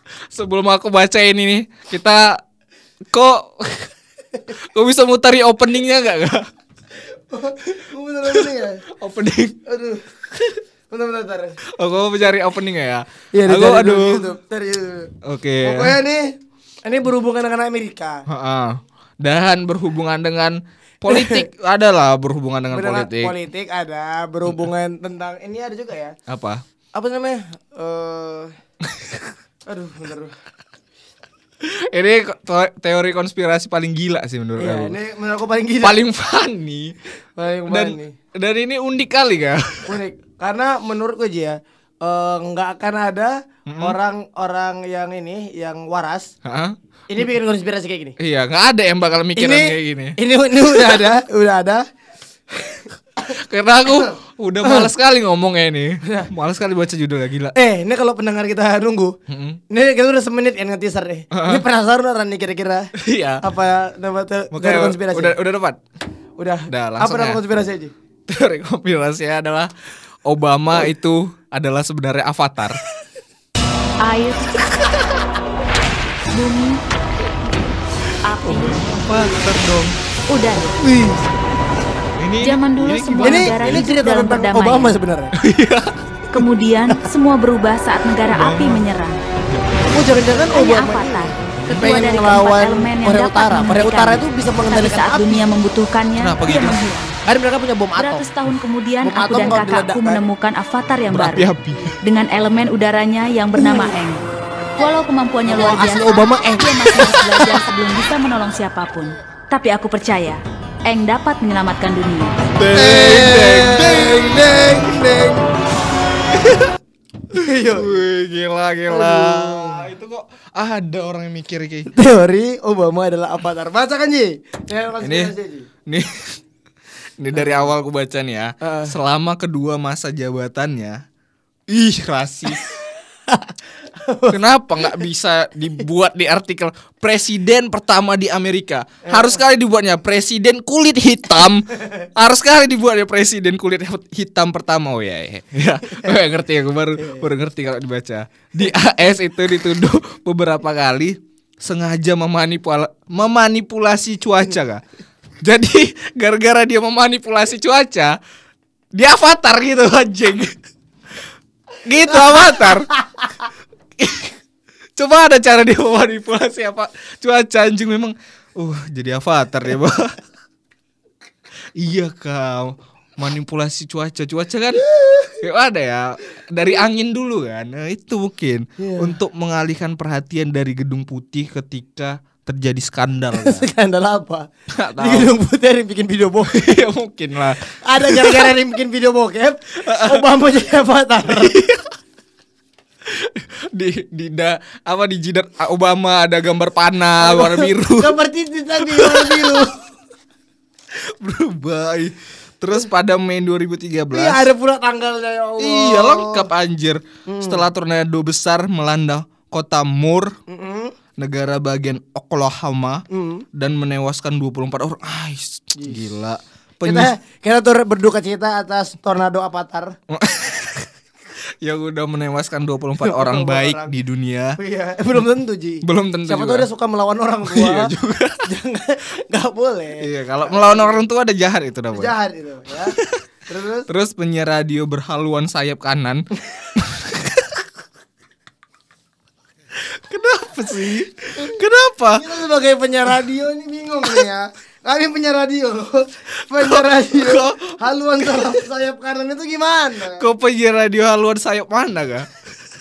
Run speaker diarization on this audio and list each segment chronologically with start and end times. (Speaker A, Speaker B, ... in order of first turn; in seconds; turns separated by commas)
Speaker A: 0.3-2.4, Speaker A: 3.1-3.9, Speaker A: 4.5-6.5, Speaker B: 7.1-8.8, Speaker A: 7.7-9.6, Speaker B: 9.7-10.1, Speaker B: 10.9-11.6, Speaker A: 11.7-14.3, Speaker B: 13.3-15.1, Speaker A: 15.2-16.0, Speaker B: 15.6-16.3, Speaker B: 16.9-18.2, Speaker A: 18.3-23.3, Speaker B: 21.1-21.4, Speaker B: 22.7-26.1, Speaker A: 26.3-26.6, Speaker B: 26.9-28.5, Speaker A: 28.9-29.2, Speaker B: 29.7-30.4, Speaker A: 31.6-35.0, Speaker B: 34.6-36.0, Speaker A: 35.8-37.0, Speaker B: 37.4-38.1, Speaker A: 37.7-40.0, Speaker B: 39.9-46.3, Speaker A: 43.6-44.0, Speaker A: 46.4-47.3, Speaker B: 47.1-48.1, Speaker A: 48.2-51.1, Speaker B: 49.4-51.9, Speaker B: 52.6-52.9, Speaker A: 53.2-57.5, Speaker B: 54.6-54.9, Speaker B: 56.0-56.3, Speaker B: 57.5-59.1, Speaker A: 59.3-59.6, Speaker B: 59.7-65.4, Speaker A: 61.3-61.6, Speaker A: 63.0-63.4, Speaker A: 64.5-65.8, Speaker B: 66.4-67.9, Speaker A: 66.7-67.4, Speaker A: 68.3-69.7, Speaker A: 70.2-72.8, Speaker C: 74.0-74.5, Speaker C: 76.3-76.8, Speaker C: 78.2-79.0, Speaker A: 78.4-80.0, Speaker C: 80.3-80.8, Speaker B: 80.8-81.3, Speaker A: 82.1-83.9, Speaker C: 82.4-85.0, Speaker B: 83.2-85.3, Speaker A: 85.4-86.0, Speaker C: 86.3-89.2, Speaker A: 88.3-88.8, Speaker A: 89.5-90.2, Speaker B: 89.9-95.5, Speaker C: 90.5-97.2, Speaker A: 91.6-92.0, Speaker A: 96.2-96.8, Speaker B: 97.3-98.3, Speaker C: 98.0-101.5, Speaker B: 99.0-100.2, Speaker A: 101.1-102.0, Speaker C: 102.0-104.2, Speaker B: 103.6-103.9, Speaker C: 104.8-112.3, Speaker B: 105.5-107.6, Speaker A: 112.5-115.1, Speaker B: 112.7-115.5, Speaker A: 116.0-116.8, Speaker B: 117.3-118.0, Speaker A: 117.4-121.9, Speaker B: 118.9-119.9, Speaker B: 121.9-125.7, Speaker A: 125.0-125.3, Speaker A: 125.9-126.4, Speaker A: 127.2-131.0, Speaker B: 127.3-127.7, Speaker B: 128.6-128.9, Speaker A: 131.7-132.7, Speaker B: 133.3-135.0, Speaker A: 134.3-154.8, Speaker B: 139.1-139.4, Speaker B: 147.0-147.3, Speaker A: 155.4-158.2, Speaker A: 158.9-160.6, Speaker A: 161.8-162.9, Speaker B: 162.1-163.4, Speaker A: 164.0-164.4, Speaker A: 165.0-170.2, Speaker A: 171.8-183.7, Speaker B: 175.0-175.3, Speaker B: 178.8-179.2, Speaker B: 183.3-186.8, Speaker A: 184.7-185.3, Speaker A: 186.5-188.6, Speaker B: 187.8-191.6, Speaker A: 189.7-190.3, Speaker A: 191.2-191.9, Speaker A: 193.1-198.2, Speaker B: 197.2-199.8, Speaker A: 198.8-199.8, Speaker A: 200.9-204.5, Speaker B: 204.1-206.5, Speaker A: 205.6-210.3, Speaker B: 207.3-207.6, Speaker B: 210.5-211.0, Speaker A: 211.2-217.1, Speaker B: 213.1-213.4, Speaker B: 216.8-219.9, Speaker A: 220.1-220.9, Speaker A: 221.6-224.6, Speaker B: 223.0-223.9, Speaker B: 224.6-227.9, Speaker A: 225.8-226.7, Speaker A: 227.4-228.5, Speaker B: 228.4-231.0, Speaker A: 230.0-232.1, Speaker B: 231.9-233.0, Speaker A: 232.9-233.2, Speaker B: 233.5-233.9, Speaker A: 233.9-237.6, Speaker A: 239.7-242.3, Speaker B: 242.2-250.3, Speaker A: 246.5-248.6, Speaker A: 250.1-252.3